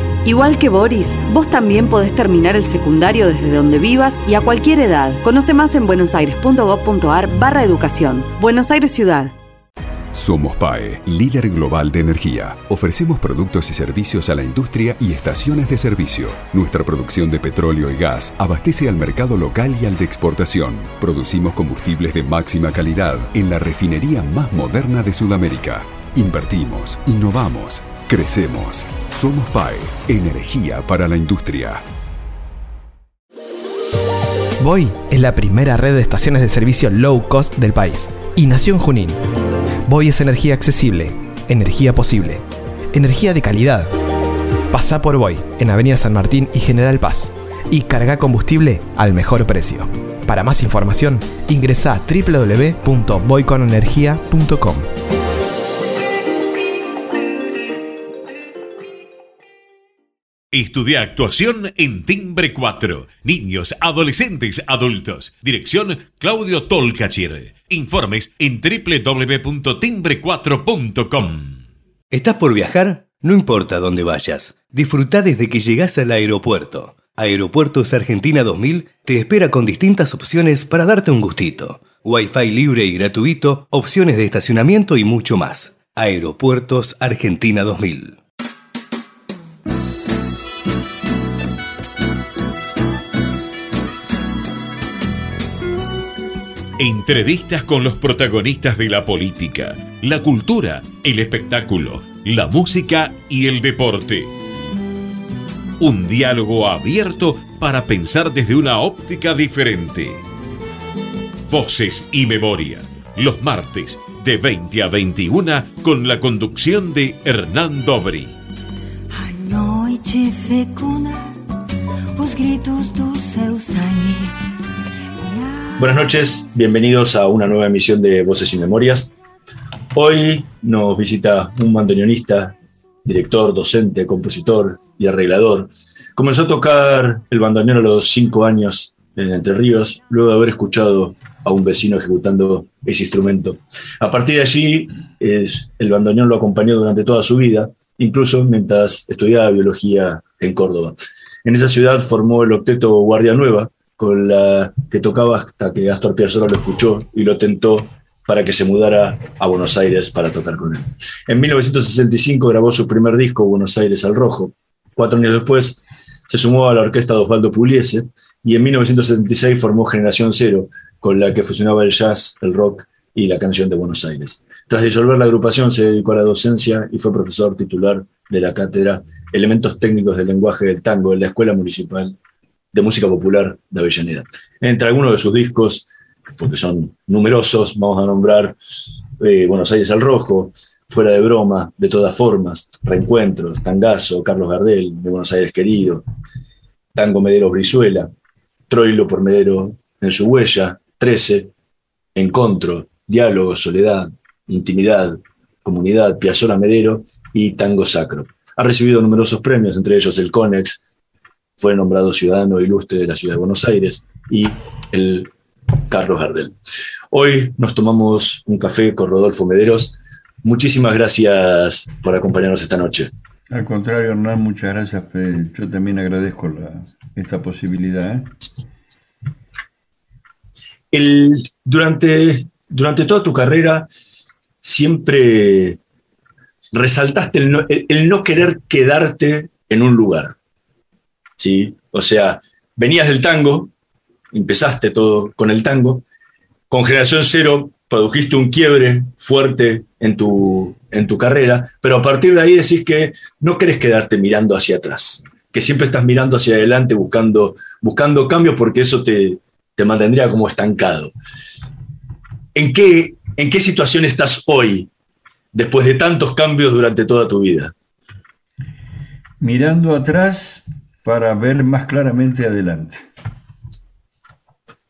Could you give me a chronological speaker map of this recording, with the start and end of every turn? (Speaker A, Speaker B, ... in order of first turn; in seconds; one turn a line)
Speaker A: 0.2-9.3
Speaker B: 10.1-31.8
Speaker C: 34.6-39.2
Speaker C: 39.9-43.9
Speaker C: 44.7-54.9
Speaker D: 60.5-71.6
Speaker E: 72.1-88.2
Speaker D: 96.8-104.3
Speaker D: 105.8-110.2
Speaker D: 111.5-118.3
Speaker F: 119.1-121.3
Speaker F: 122.2-124.3
Speaker F: 125.2-126.1
Speaker G: 125.8-129.1
Speaker G: 129.9-182.2
Speaker G: 182.7-188.6
Speaker G: 189.2-196.0
Speaker G: 196.9-198.1
Speaker G: 198.7-201.5
Speaker G: 202.1-210.8
Speaker G: 211.6-215.3
Speaker G: 215.9-216.6
Speaker G: 217.1-223.1
Speaker H: 223.5-228.3
Speaker G: 230.9-233.9
Speaker G: 234.6-235.8
Speaker G: 236.7-240.3
Speaker G: 241.4-243.7
Speaker G: 244.3-246.0
Speaker G: 246.7-261.1
Speaker G: 262.5-264.9
Speaker G: 265.5-267.7
Speaker H: 269.4-273.1